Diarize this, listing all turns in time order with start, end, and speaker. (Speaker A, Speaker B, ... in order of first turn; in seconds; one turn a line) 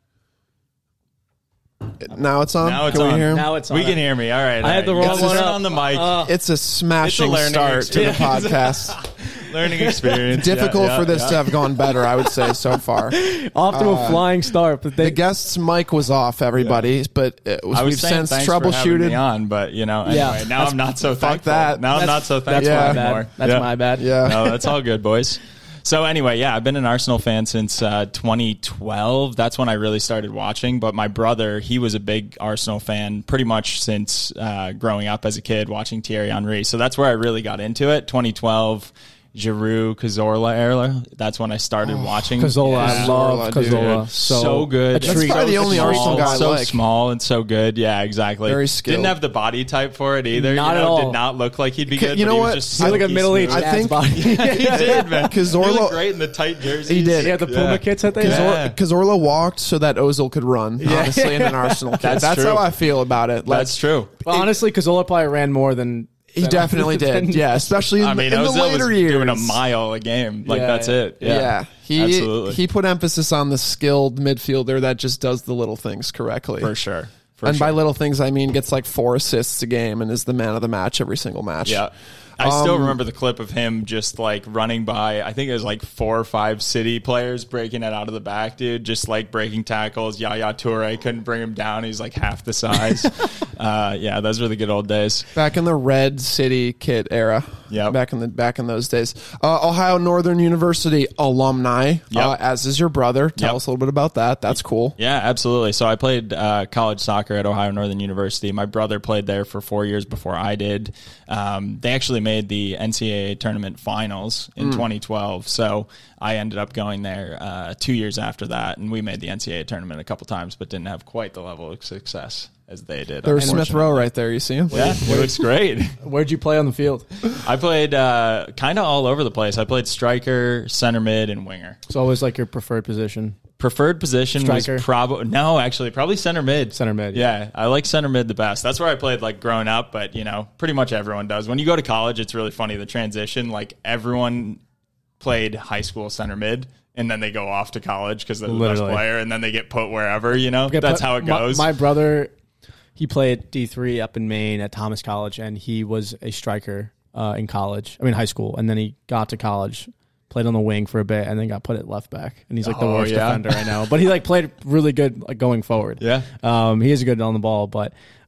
Speaker A: 2.0-3.5
Speaker B: 2.6-6.2
Speaker C: 3.2-4.0
Speaker C: 4.6-6.3
Speaker A: 5.0-5.5
Speaker A: 6.2-9.0
Speaker B: 7.0-11.5
Speaker C: 7.9-8.7
Speaker C: 9.6-10.2
Speaker A: 10.3-13.2
Speaker C: 13.1-15.2
Speaker A: 13.7-14.2
Speaker A: 15.0-19.2
Speaker B: 17.7-58.8
Speaker C: 20.1-20.7
Speaker A: 21.0-23.0
Speaker C: 21.9-24.2
Speaker A: 24.0-24.6
Speaker A: 41.8-44.0
Speaker C: 42.4-46.4
Speaker A: 45.0-46.8
Speaker A: 48.4-49.1
Speaker C: 50.3-51.2
Speaker A: 51.9-56.1
Speaker C: 52.8-55.3
Speaker A: 56.8-57.4
Speaker C: 57.2-58.5
Speaker A: 58.2-64.5
Speaker C: 60.8-61.9
Speaker B: 62.0-62.7
Speaker B: 63.5-64.1
Speaker C: 64.2-67.8
Speaker A: 66.3-69.6
Speaker B: 68.0-72.6
Speaker C: 70.4-71.5
Speaker A: 71.2-76.7
Speaker B: 76.6-77.8
Speaker A: 77.4-81.8
Speaker B: 81.6-95.3
Speaker A: 82.4-83.0
Speaker A: 95.3-105.0
Speaker B: 97.7-98.0
Speaker B: 105.0-124.0
Speaker A: 123.2-125.0
Speaker C: 123.3-123.8
Speaker C: 124.7-125.4
Speaker B: 124.7-125.9
Speaker C: 126.0-127.0
Speaker B: 127.4-131.8
Speaker C: 131.9-133.4
Speaker B: 133.6-144.6
Speaker C: 134.4-134.8
Speaker C: 136.7-137.2
Speaker B: 145.2-151.7
Speaker C: 148.5-149.0
Speaker C: 150.7-152.3
Speaker C: 153.0-167.9
Speaker B: 162.6-163.9
Speaker B: 166.0-166.3